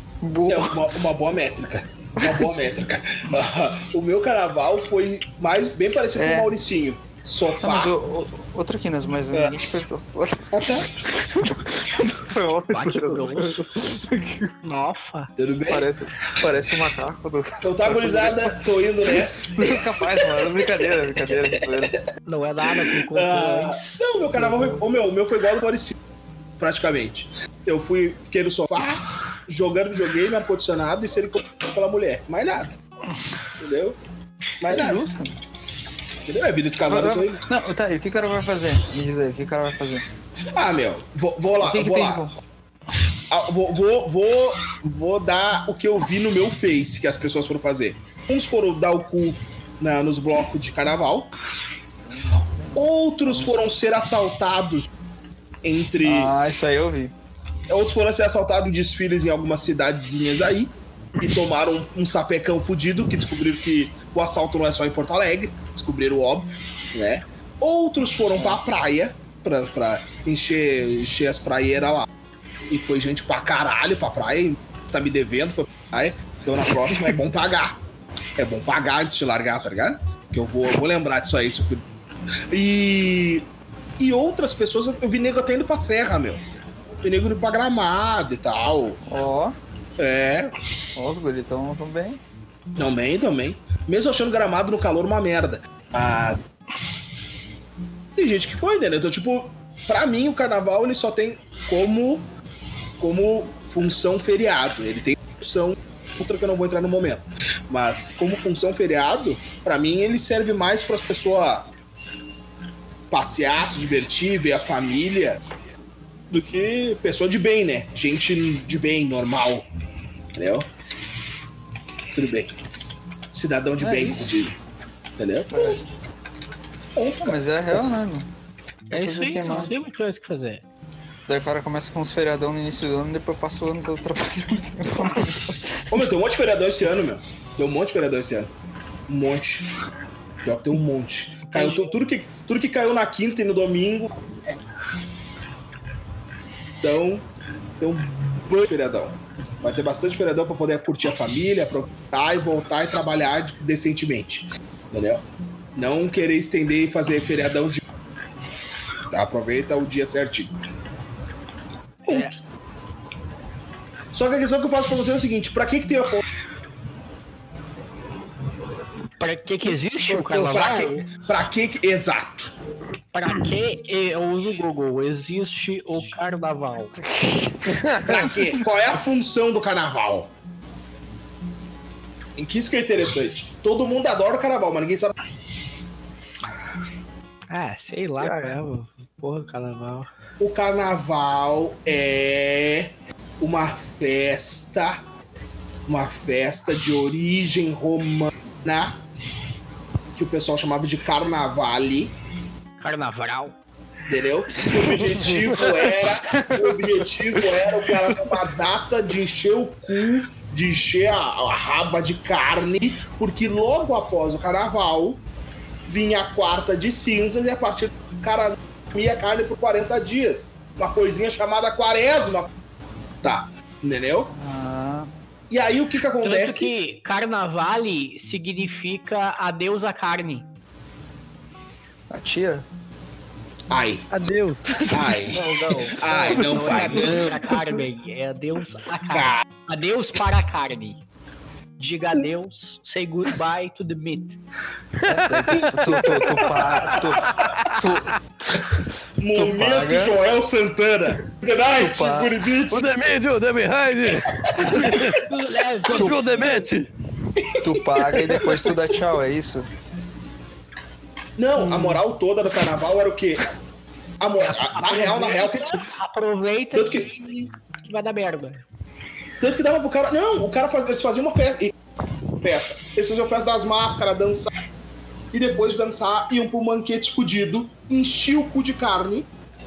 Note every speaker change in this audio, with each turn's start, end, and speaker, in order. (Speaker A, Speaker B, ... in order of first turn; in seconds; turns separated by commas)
Speaker A: 0.2-0.9, Speaker B: 0.5-7.9, Speaker A: 6.2-6.5, Speaker A: 7.6-14.6, Speaker B: 10.5-10.9, Speaker C: 12.7-13.7, Speaker C: 14.6-15.3, Speaker B: 15.4-15.9, Speaker A: 15.7-21.9, Speaker B: 17.6-20.3, Speaker C: 22.3-24.9, Speaker B: 22.9-26.0, Speaker B: 26.6-32.7, Speaker B: 33.6-34.0, Speaker B: 34.6-35.0, Speaker A: 34.7-35.4, Speaker B: 36.3-37.4, Speaker A: 36.9-40.0, Speaker B: 40.5-42.3, Speaker A: 41.6-42.4, Speaker B: 43.3-51.3, Speaker A: 52.0-53.7, Speaker B: 52.8-54.9, Speaker B: 55.6-56.3, Speaker A: 56.0-57.1, Speaker B: 57.7-72.1, Speaker A: 68.4-68.6, Speaker B: 72.7-77.8, Speaker B: 78.4-81.8, Speaker B: 82.5-83.5, Speaker B: 84.0-86.5, Speaker B: 87.0-89.0, Speaker A: 89.1-89.6, Speaker B: 90.0-90.5, Speaker A: 91.0-92.2, Speaker B: 92.8-96.4, Speaker B: 98.2-102.3, Speaker B: 103.0-111.7, Speaker B: 113.1-115.4, Speaker B: 116.3-119.7, Speaker B: 120.3-120.7, Speaker B: 122.1-122.5, Speaker B: 123.3-124.6, Speaker A: 123.8-124.3, Speaker B: 125.2-125.9, Speaker A: 125.5-125.8, Speaker B: 127.0-127.4, Speaker A: 127.2-128.3, Speaker A: 128.9-129.8, Speaker C: 128.9-130.6, Speaker A: 131.3-136.1, Speaker B: 135.9-138.5, Speaker B: 139.1-139.7, Speaker B: 140.4-144.3, Speaker C: 141.6-141.9, Speaker B: 146.8-147.3, Speaker B: 147.8-155.2, Speaker B: 155.8-157.8, Speaker B: 159.1-160.5, Speaker C: 162.1-162.4, Speaker B: 164.1-166.2, Speaker C: 169.2-171.1, Speaker D: 170.1-170.5, Speaker B: 170.4-172.5, Speaker C: 173.1-177.0, Speaker A: 177.0-178.0, Speaker D: 177.7-178.3, Speaker B: 178.0-180.3, Speaker B: 182.4-185.2, Speaker C: 187.5-190.1, Speaker D: 188.2-188.6, Speaker B: 190.4-195.0, Speaker B: 195.9-199.0, Speaker B: 200.2-202.1, Speaker C: 202.8-203.6, Speaker B: 204.1-215.2, Speaker A: 204.6-208.5, Speaker B: 215.9-222.5, Speaker B: 223.2-224.3, Speaker A: 224.3-225.1, Speaker B: 225.5-226.7, Speaker C: 226.2-230.5, Speaker A: 232.1-232.7, Speaker B: 233.7-234.1, Speaker D: 234.1-234.8, Speaker A: 234.7-235.4, Speaker B: 234.9-237.5, Speaker C: 235.3-241.0, Speaker A: 236.5-237.5, Speaker B: 239.1-239.4, Speaker C: 241.8-244.4, Speaker D: 245.0-247.8, Speaker A: 245.1-250.2, Speaker B: 246.5-247.3, Speaker B: 249.2-252.9, Speaker A: 251.8-252.3, Speaker D: 252.7-255.2, Speaker B: 254.6-255.2, Speaker C: 254.8-256.1, Speaker D: 255.9-256.9, Speaker A: 255.9-256.2, Speaker A: 257.6-259.7, Speaker D: 258.1-258.4, Speaker B: 258.4-258.7, Speaker B: 261.4-263.5, Speaker A: 261.6-262.0, Speaker B: 264.2-265.9, Speaker C: 264.4-268.6, Speaker B: 266.7-267.2, Speaker B: 269.4-271.7, Speaker B: 272.4-274.5, Speaker B: 275.3-279.3